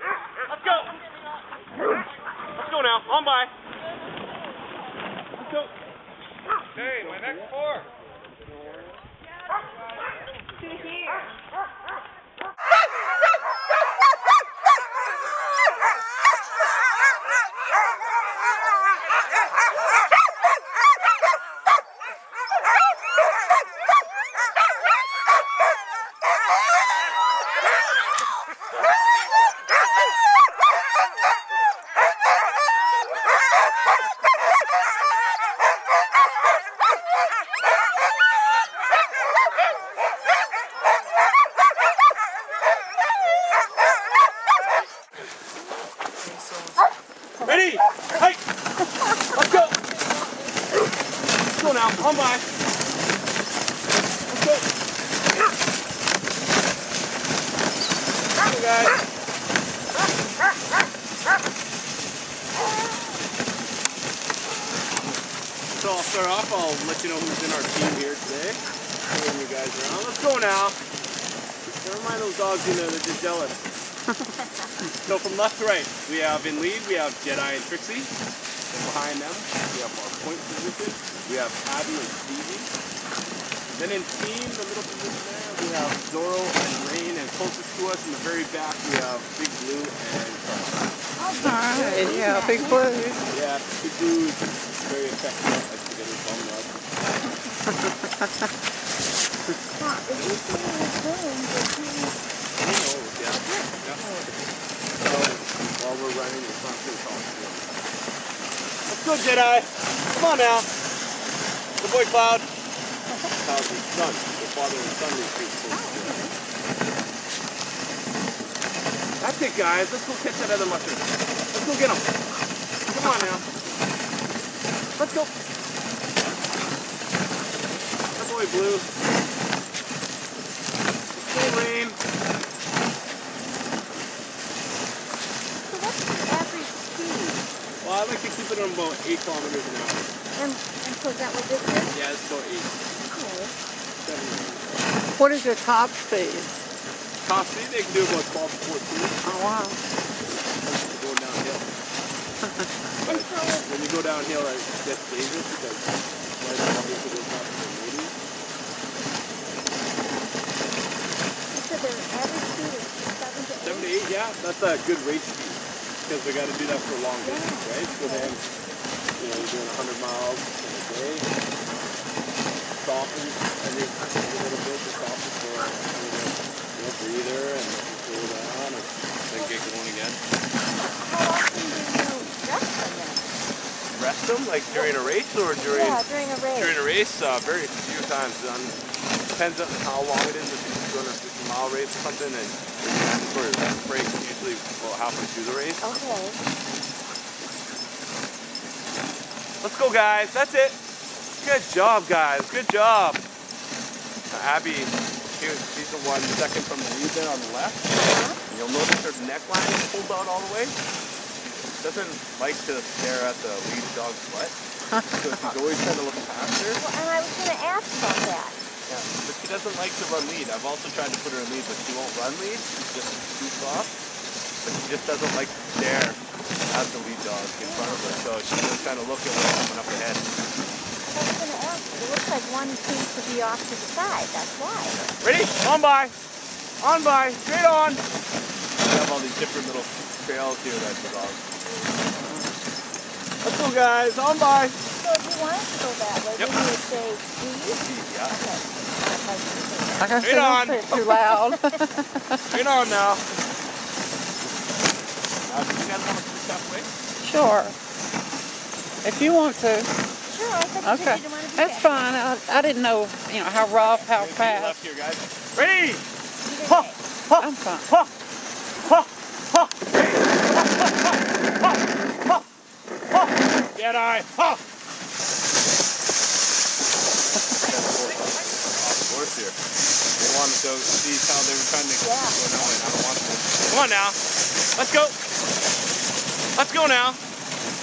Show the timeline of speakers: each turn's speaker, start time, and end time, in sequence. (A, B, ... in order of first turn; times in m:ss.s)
0:00.5-0:00.9 A
0:02.5-0:03.5 A
0:06.8-0:07.6 A
0:47.4-0:48.4 A
0:49.3-0:49.8 A
0:51.5-0:52.4 A
0:54.3-0:54.6 A
0:58.4-0:59.0 A
1:05.7-1:10.8 A
1:11.8-1:13.6 A
1:15.0-1:18.1 A
1:18.7-1:22.7 A
1:23.7-1:30.8 A
1:31.2-1:32.8 B
1:31.3-1:33.3 C
1:33.3-1:36.7 A
1:39.8-1:42.2 B
1:42.6-1:44.0 A
1:43.3-1:44.3 B
1:45.0-1:47.7 A
1:48.9-1:50.7 A
1:51.8-1:52.5 A
1:53.4-1:56.2 A
1:55.7-1:56.3 B
1:59.2-2:02.1 A
2:02.9-2:03.4 A
2:05.0-2:05.3 A
2:08.2-2:08.9 A
2:11.1-2:12.0 A
2:15.7-2:17.4 B
2:17.8-2:20.1 A
2:20.4-2:21.9 B
2:21.9-2:22.8 A
2:23.1-2:23.5 B
2:24.0-2:24.8 A
2:25.2-2:26.5 C
2:27.2-2:29.2 A
2:29.2-2:29.8 C
2:30.6-2:31.7 A
2:33.0-2:38.1 A
2:33.0-2:33.6 B
2:41.5-2:44.0 B
2:43.6-2:48.4 A
2:47.2-2:48.3 B
2:49.2-2:51.3 A
2:52.8-3:00.2 A
3:01.0-3:03.3 B
3:03.9-3:06.0 A
3:04.7-3:06.8 B
3:06.5-3:08.8 A
3:09.3-3:15.9 A
3:15.8-3:16.4 B
3:19.6-3:20.8 A
3:21.4-3:23.2 A
3:24.3-3:28.0 A
3:28.0-3:28.4 B
3:28.5-3:30.7 A
3:31.8-3:34.6 A
3:35.1-3:36.8 A
3:36.8-3:38.6 B
3:38.9-3:43.9 A
3:44.6-3:46.2 A
3:46.7-3:50.2 A
3:47.6-3:48.2 B
3:51.1-3:55.1 B
3:55.2-3:56.1 A
3:56.8-3:58.0 A
3:58.8-4:01.6 A
4:03.4-4:04.8 A
4:05.0-4:10.2 B
4:07.8-4:08.3 A
4:10.0-4:12.5 C
4:10.2-4:10.9 A
4:10.8-4:11.6 B
4:12.5-4:13.2 A
4:15.4-4:16.9 A
4:17.2-4:17.7 C
4:19.0-4:19.9 C
4:20.3-4:22.1 B
4:20.8-4:24.8 C
4:23.6-4:24.1 B
4:24.1-4:26.0 A
4:26.4-4:27.0 B
4:26.7-4:28.1 A
4:27.4-4:27.9 C
4:28.8-4:31.1 A
4:33.2-4:34.6 A
4:37.6-4:39.6 A
4:40.2-4:44.2 A
4:42.0-4:42.4 B
4:44.8-4:45.2 A
4:46.6-4:47.2 A